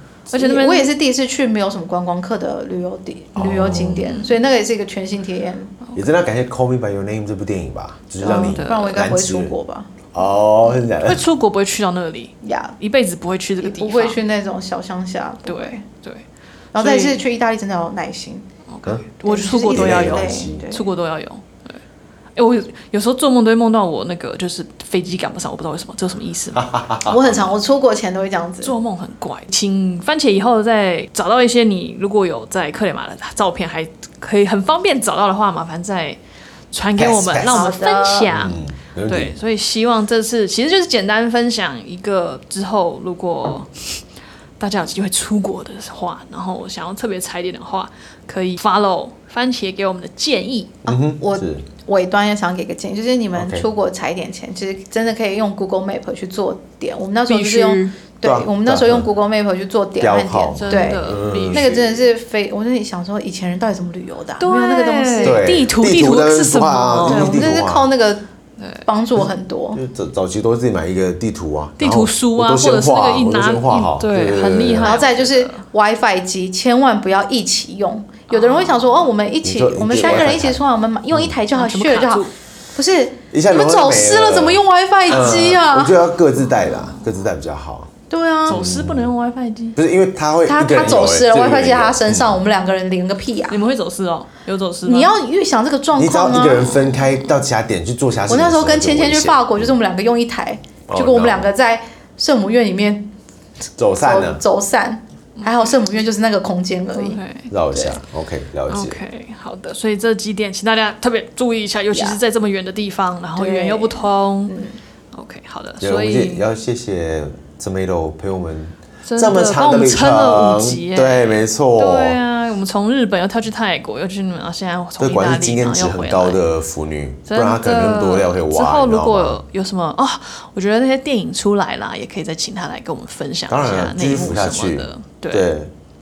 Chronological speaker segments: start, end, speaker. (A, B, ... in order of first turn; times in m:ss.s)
0:00.3-0:00.9 A
0:00.3-0:05.8 B
0:03.4-0:04.0 C
0:04.0-0:04.3 A
0:05.9-0:09.5 C
0:08.2-0:09.9 B
0:08.3-0:09.0 A
0:10.1-0:11.2 C
0:11.0-0:14.2 A
0:12.4-0:12.7 B
0:13.6-0:15.8 B
0:15.4-0:16.2 A
0:16.7-0:18.4 B
0:16.7-0:17.2 A
0:18.7-0:21.8 A
0:19.2-0:20.9 B
0:19.7-0:20.6 C
0:22.4-0:26.7 A
0:26.6-0:27.4 C
0:27.0-0:28.7 B
0:28.6-0:36.2 A
0:36.7-0:44.0 A
0:37.0-0:39.4 C
0:37.5-0:38.3 B
0:44.6-0:50.7 A
0:50.8-0:51.6 C
0:50.8-1:05.5 B
0:53.3-0:53.6 C
0:57.3-0:57.9 A
0:58.2-0:59.1 C
1:00.0-1:02.0 C
1:00.6-1:01.7 A
1:04.4-1:07.5 A
1:05.2-1:07.9 C
1:07.0-1:08.3 B
1:08.6-1:08.8 A
1:08.8-1:09.8 B
1:09.7-1:15.0 C
1:11.8-1:15.6 A
1:14.8-1:26.0 B
1:18.3-1:19.1 A
1:19.4-1:20.6 C
1:21.6-1:22.3 A
1:23.3-1:27.9 C
1:26.6-1:27.0 A
1:28.1-1:28.6 B
1:28.5-1:29.1 C
1:28.5-1:29.8 A
1:29.8-1:32.4 C
1:30.4-1:33.6 B
1:33.5-1:35.1 A
1:34.8-1:36.9 B
1:36.0-1:39.7 C
1:36.9-1:37.2 A
1:38.3-1:43.1 B
1:40.9-1:41.5 C
1:43.8-1:44.4 C
1:44.0-1:47.2 B
1:45.4-1:45.7 A
1:46.9-1:47.5 A
1:47.5-1:49.0 C
1:47.7-1:48.0 B
1:48.7-1:54.6 A
1:51.9-1:52.2 B
1:53.4-1:54.8 B
1:55.1-1:56.4 A
1:55.8-2:02.2 C
1:59.0-2:06.4 A
2:05.0-2:09.4 C
2:07.3-2:15.5 A
2:13.5-2:15.7 C